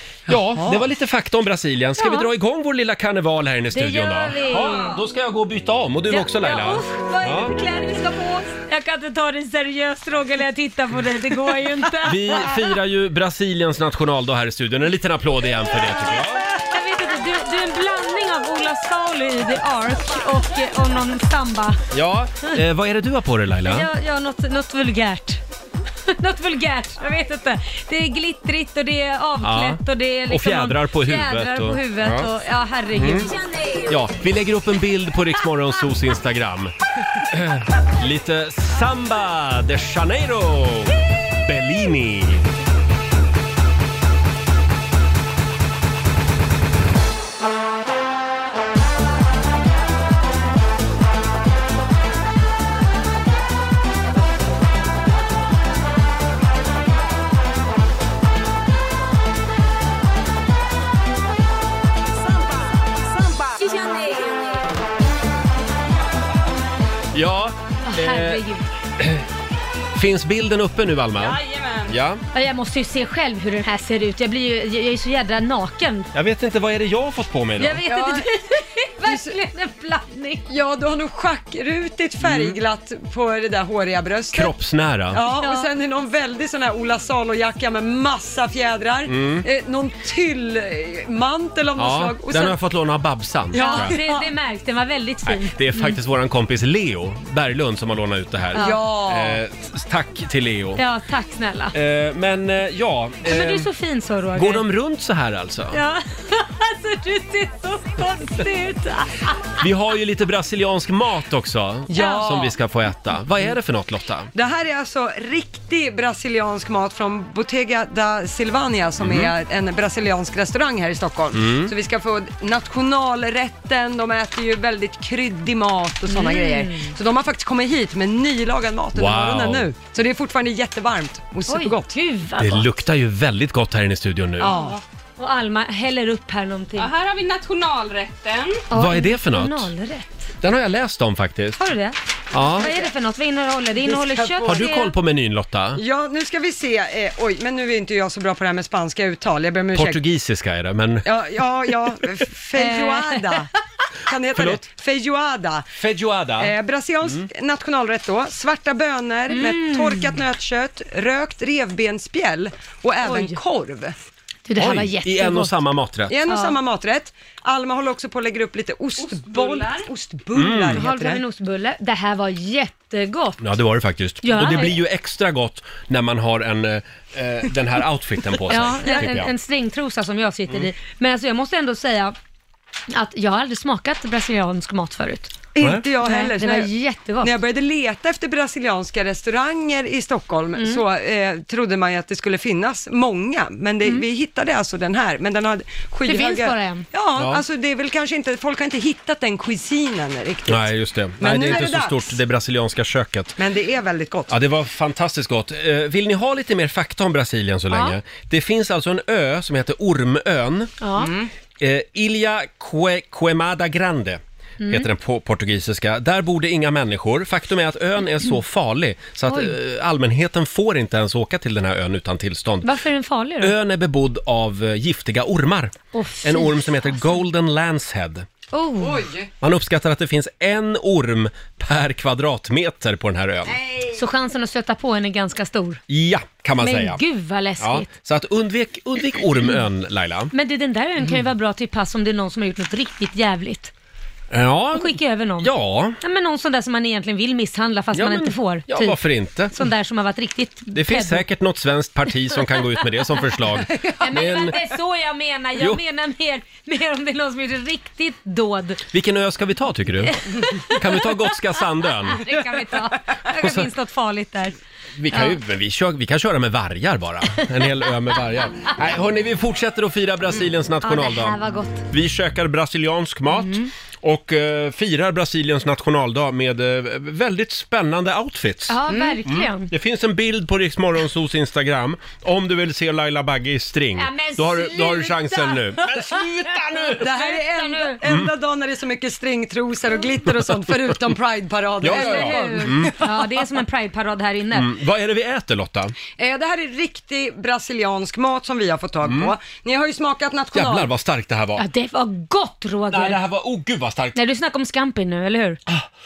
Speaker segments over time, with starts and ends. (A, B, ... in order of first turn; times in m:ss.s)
0:00.3-0:00.8 A
0:00.3-0:07.5 B
0:02.0-0:02.3 C
0:03.7-0:05.0 C
0:06.1-0:12.6 C
0:12.0-0:16.4 B
0:15.9-0:21.8 C
0:21.9-0:23.9 B
0:23.6-0:25.4 C
0:26.2-0:33.3 C
0:29.4-0:32.3 B
0:33.0-0:33.3 B
0:33.5-0:33.8 D
0:33.9-0:42.5 B
1:03.3-1:04.6 D
1:07.1-1:08.4 B
1:07.8-1:08.6 C
1:09.9-1:12.2 B
1:11.2-1:11.9 D
1:12.3-1:16.1 C
1:16.1-1:17.8 B
1:17.6-1:20.5 C
1:17.9-1:18.3 A
1:19.0-1:19.3 A
1:20.5-1:24.5 A
1:22.2-1:22.6 B
1:24.3-1:25.2 B
1:25.1-1:32.6 A
1:25.3-1:25.7 C
1:29.1-1:29.4 B
1:31.8-1:34.0 B
1:33.5-1:34.3 A
1:33.6-1:36.0 C
1:35.2-1:40.8 B
1:38.5-1:39.4 A
1:40.8-1:41.7 C
1:41.7-1:43.7 B
1:43.2-1:44.6 C
1:44.3-1:45.8 B
1:45.7-1:49.4 C
1:49.6-1:54.3 B
1:51.9-1:52.6 A
1:51.9-1:52.3 C
1:54.3-2:11.9 A
1:59.0-1:59.3 B
2:01.3-2:01.7 B
2:06.1-2:06.9 C
2:09.0-2:09.7 B
2:11.5-2:12.7 C
2:12.4-2:14.5 B
2:14.4-2:14.8 A
2:14.4-2:16.9 C
2:16.8-2:18.6 D
2:18.7-2:20.3 C
2:18.7-2:19.7 B
2:20.4-2:21.6 B
2:21.6-2:24.9 C
2:22.3-2:22.7 B
2:22.6-2:22.9 A
2:23.8-2:24.8 A
2:24.4-2:25.8 B
2:25.8-2:30.0 A
2:29.7-2:31.1 B
2:31.0-2:33.5 A
2:32.5-2:33.4 C
2:34.0-2:35.7 A
2:34.3-2:34.6 B
2:35.8-2:36.5 B
2:36.4-2:44.0 A
2:39.3-2:40.2 C
2:43.0-2:43.4 C
2:44.4-2:45.5 C
2:44.6-2:46.1 B
2:46.1-2:51.2 A
2:46.3-2:46.6 C
2:49.0-2:49.9 D
2:50.3-2:50.8 B
2:50.8-2:53.4 C
2:53.4-2:59.3 B
2:54.2-2:54.8 C
2:58.5-3:02.1 C
2:58.6-2:59.2 A
3:02.9-3:05.3 C
3:05.5-3:22.1 A
3:06.0-3:07.3 C
3:10.6-3:10.8 C
3:16.0-3:16.8 C
3:17.2-3:17.4 B
3:20.5-3:23.4 B
3:23.4-3:24.3 A
3:24.3-3:30.7 B
3:27.7-3:28.0 C
3:30.8-3:31.1 C
3:31.0-3:31.3 A
3:31.6-3:42.7 B
3:34.6-3:34.9 C
3:39.3-3:39.5 C
3:42.6-3:43.5 C
3:43.4-3:48.3 B
3:45.9-3:47.2 C
3:48.5-3:49.0 C
3:48.8-3:49.3 A
3:49.4-3:53.5 B
3:53.5-3:54.0 A
3:53.9-3:55.8 C
3:55.9-3:57.0 B
3:56.6-3:57.9 C
3:57.6-4:00.3 B
4:00.3-4:03.7 C
4:04.3-4:06.0 B
4:04.7-4:11.2 C
4:07.9-4:09.5 B
4:10.7-4:14.6 B
4:12.3-4:12.9 C
4:13.7-4:14.4 A
4:13.9-4:18.8 C
4:18.9-4:22.2 B
4:20.1-4:24.6 C
4:23.4-4:23.7 B
4:25.0-4:31.4 B
4:25.1-4:25.4 C
4:30.8-4:31.8 C
4:31.9-4:47.0 B
4:33.3-4:33.7 C
4:38.7-4:39.7 C
4:38.9-4:39.2 A
4:44.0-4:46.2 C
4:46.8-4:48.0 C
4:47.0-4:53.5 A
4:51.8-4:52.9 B
4:51.8-4:54.7 C
4:54.5-4:55.9 B
4:56.2-5:00.9 A
4:59.0-4:59.3 B
5:00.5-5:01.6 B
5:01.6-5:03.2 C
5:02.9-5:04.2 B
5:04.1-5:05.6 C